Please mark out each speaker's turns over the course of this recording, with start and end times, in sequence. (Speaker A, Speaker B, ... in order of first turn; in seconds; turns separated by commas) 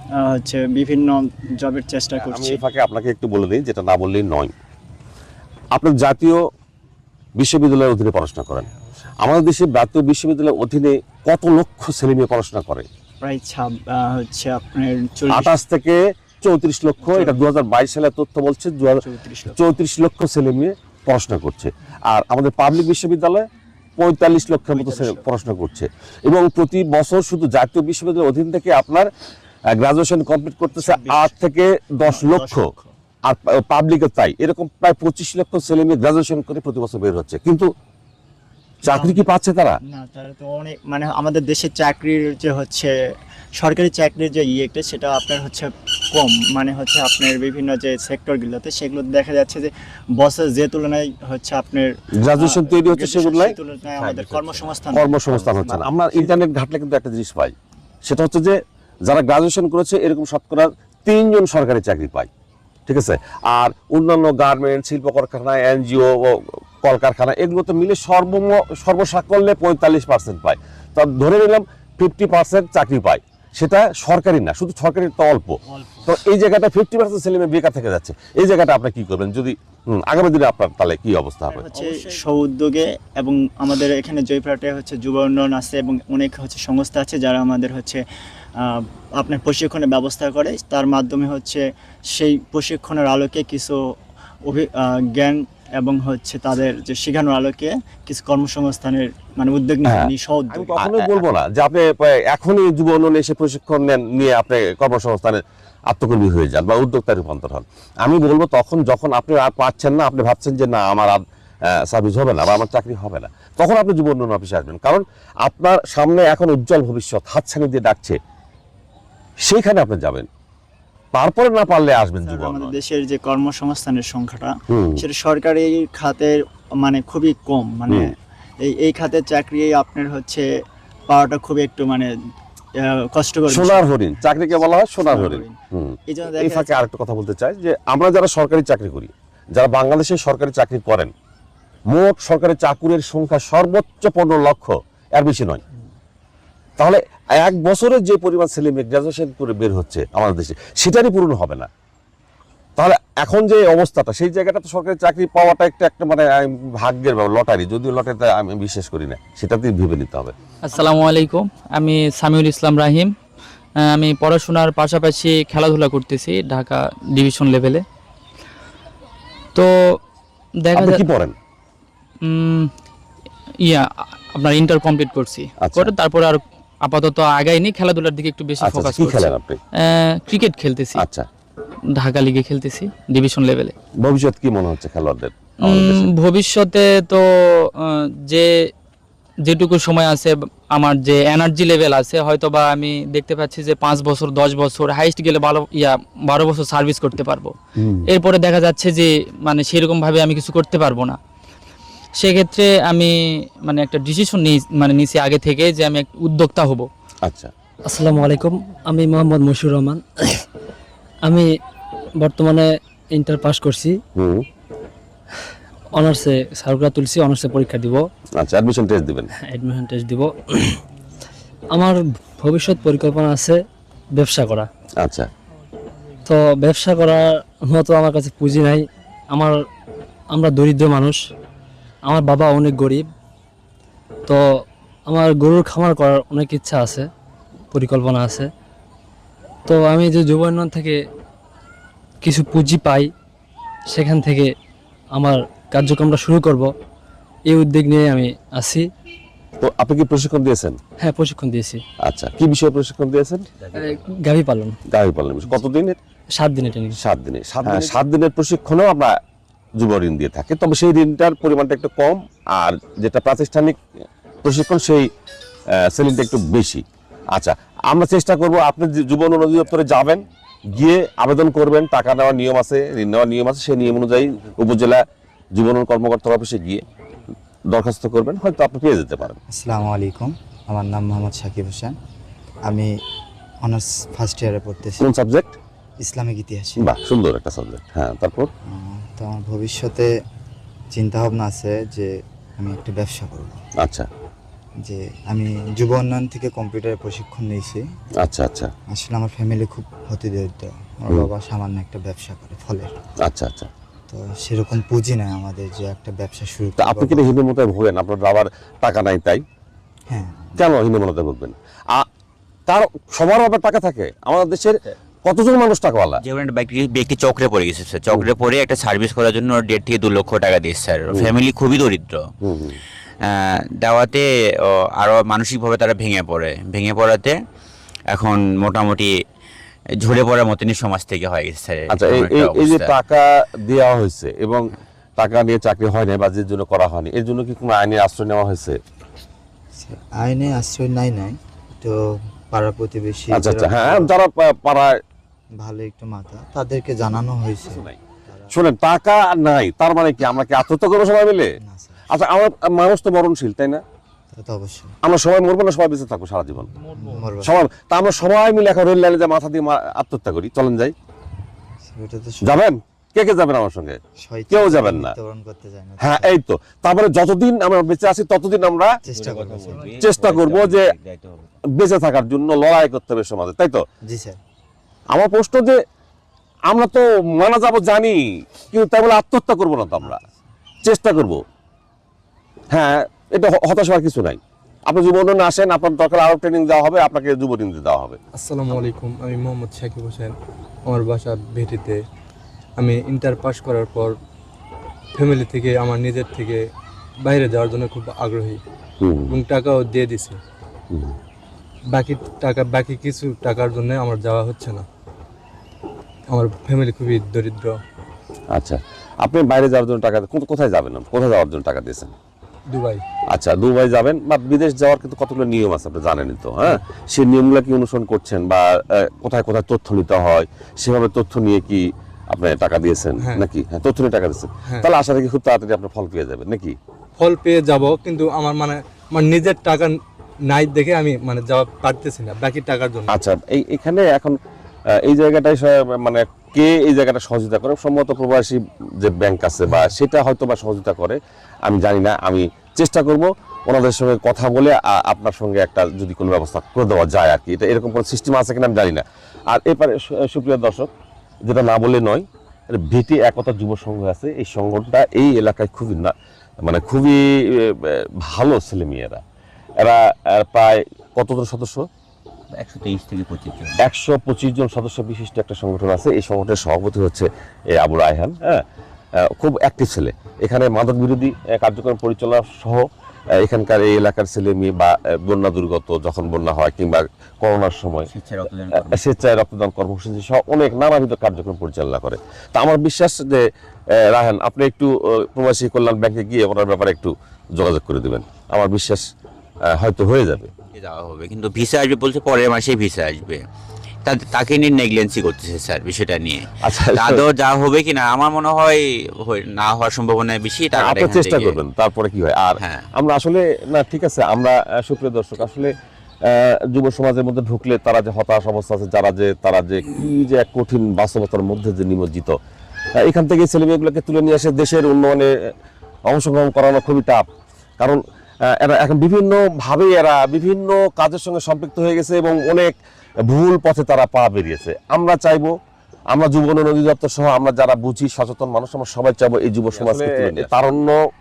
Speaker A: 0.1-2.6, Speaker B: 2.2-4.5, Speaker B: 5.7-6.4, Speaker B: 7.4-8.7, Speaker B: 9.2-12.9, Speaker A: 13.2-15.6, Speaker B: 15.3-23.4, Speaker A: 17.0-17.3, Speaker A: 19.0-19.6, Speaker B: 24.0-29.1, Speaker A: 24.7-25.2, Speaker B: 29.7-32.7, Speaker A: 30.8-31.4, Speaker A: 32.0-32.9, Speaker B: 33.3-37.7, Speaker B: 38.8-39.8, Speaker A: 38.9-39.2, Speaker A: 39.9-42.9, Speaker A: 43.6-56.2, Speaker B: 52.2-53.6, Speaker C: 54.0-54.8, Speaker B: 54.9-62.3, Speaker B: 62.9-81.7, Speaker A: 75.7-76.1, Speaker A: 81.5-88.0, Speaker A: 88.6-93.8, Speaker A: 94.5-101.2, Speaker B: 99.8-118.2, Speaker B: 119.5-120.3, Speaker B: 121.1-122.8, Speaker A: 122.2-130.5, Speaker B: 124.7-125.0, Speaker A: 131.1-132.1, Speaker A: 132.8-135.5, Speaker B: 133.5-141.1, Speaker A: 136.1-136.8, Speaker B: 141.9-145.6, Speaker B: 146.8-151.7, Speaker B: 152.8-160.3, Speaker D: 160.7-163.1, Speaker D: 163.9-167.8, Speaker D: 169.5-169.9, Speaker D: 170.6-171.0, Speaker B: 170.7-171.3, Speaker D: 172.2-172.7, Speaker D: 174.3-181.0, Speaker B: 175.6-175.9, Speaker B: 178.6-179.6, Speaker B: 181.0-181.3, Speaker D: 182.0-183.7, Speaker B: 184.0-186.1, Speaker D: 185.6-187.2, Speaker D: 187.8-188.5, Speaker D: 189.4-197.5, Speaker D: 198.1-201.2, Speaker D: 202.2-206.9, Speaker B: 207.2-207.5, Speaker E: 207.9-210.4, Speaker E: 212.2-213.9, Speaker B: 214.2-214.4, Speaker E: 216.0-218.0, Speaker B: 218.4-219.3, Speaker E: 219.4-220.7, Speaker E: 221.7-223.6, Speaker E: 224.2-224.7, Speaker B: 225.0-225.3, Speaker E: 226.2-228.8, Speaker E: 230.3-231.2, Speaker E: 232.1-233.1, Speaker E: 235.1-237.0, Speaker E: 237.7-238.5, Speaker E: 239.7-241.0, Speaker E: 242.2-243.1, Speaker E: 243.9-244.5, Speaker E: 245.1-246.7, Speaker E: 247.5-248.8, Speaker B: 249.6-250.8, Speaker E: 251.0-251.8, Speaker B: 252.0-253.5, Speaker E: 253.9-254.7, Speaker B: 254.9-256.0, Speaker E: 256.4-257.0, Speaker B: 257.0-259.1, Speaker B: 259.8-263.8, Speaker B: 264.4-265.1, Speaker B: 265.8-266.8, Speaker B: 267.3-276.8, Speaker B: 277.7-279.4, Speaker F: 279.5-282.0, Speaker F: 283.6-285.0, Speaker B: 285.0-285.6, Speaker F: 286.0-286.9, Speaker B: 286.8-288.5, Speaker F: 288.7-290.1, Speaker F: 290.9-293.6, Speaker B: 293.8-294.1, Speaker F: 294.8-297.8, Speaker B: 298.2-298.7, Speaker F: 298.9-302.9, Speaker B: 303.2-303.7, Speaker F: 304.1-307.3, Speaker B: 306.8-309.4, Speaker F: 310.1-310.6, Speaker B: 310.6-312.1, Speaker B: 312.7-316.2, Speaker C: 316.2-322.2, Speaker B: 322.4-322.8, Speaker C: 323.2-327.3, Speaker C: 328.1-329.1, Speaker C: 330.0-332.9, Speaker B: 331.9-334.6, Speaker B: 335.2-338.8, Speaker F: 339.8-341.9, Speaker F: 342.5-344.1, Speaker B: 343.3-345.0, Speaker F: 345.6-348.5, Speaker B: 347.6-348.0, Speaker B: 348.5-351.5, Speaker F: 351.6-352.1, Speaker B: 352.1-353.8, Speaker F: 354.3-354.9, Speaker B: 355.0-356.7, Speaker F: 356.9-357.7, Speaker B: 357.4-360.9, Speaker F: 361.9-362.6, Speaker B: 362.4-364.0, Speaker F: 364.2-366.3, Speaker B: 364.5-365.1, Speaker B: 366.0-369.0, Speaker F: 369.0-370.1, Speaker C: 369.1-371.6, Speaker B: 370.0-370.9, Speaker B: 371.7-373.8, Speaker F: 374.1-374.4, Speaker B: 375.1-375.8, Speaker B: 376.7-380.2, Speaker F: 380.0-380.4, Speaker B: 380.8-381.4, Speaker B: 382.7-388.2, Speaker G: 388.4-390.3, Speaker G: 390.9-392.0, Speaker G: 392.8-394.1, Speaker G: 395.1-396.6, Speaker G: 397.2-398.6, Speaker B: 399.0-399.4, Speaker G: 399.3-400.4, Speaker B: 400.9-401.2, Speaker G: 401.9-404.9, Speaker G: 406.3-407.8, Speaker B: 408.5-412.1, Speaker G: 412.7-413.0, Speaker B: 413.3-426.8, Speaker G: 423.2-423.4, Speaker G: 427.2-430.0, Speaker G: 430.5-433.1, Speaker B: 433.1-434.4, Speaker B: 435.0-450.9, Speaker B: 451.4-459.2, Speaker B: 459.8-461.8, Speaker C: 462.5-463.8, Speaker B: 463.8-468.6, Speaker B: 469.2-472.8, Speaker B: 473.4-478.1, Speaker C: 478.1-479.1, Speaker B: 478.7-483.4, Speaker B: 484.0-489.0, Speaker B: 489.7-490.5, Speaker C: 490.7-493.4, Speaker C: 494.0-501.6, Speaker B: 496.6-497.2, Speaker B: 500.8-505.7, Speaker C: 502.6-502.9, Speaker B: 506.3-512.3, Speaker B: 513.0-515.3, Speaker B: 516.1-517.2, Speaker B: 518.5-522.7, Speaker B: 523.3-525.5, Speaker B: 526.1-530.9, Speaker C: 529.7-530.5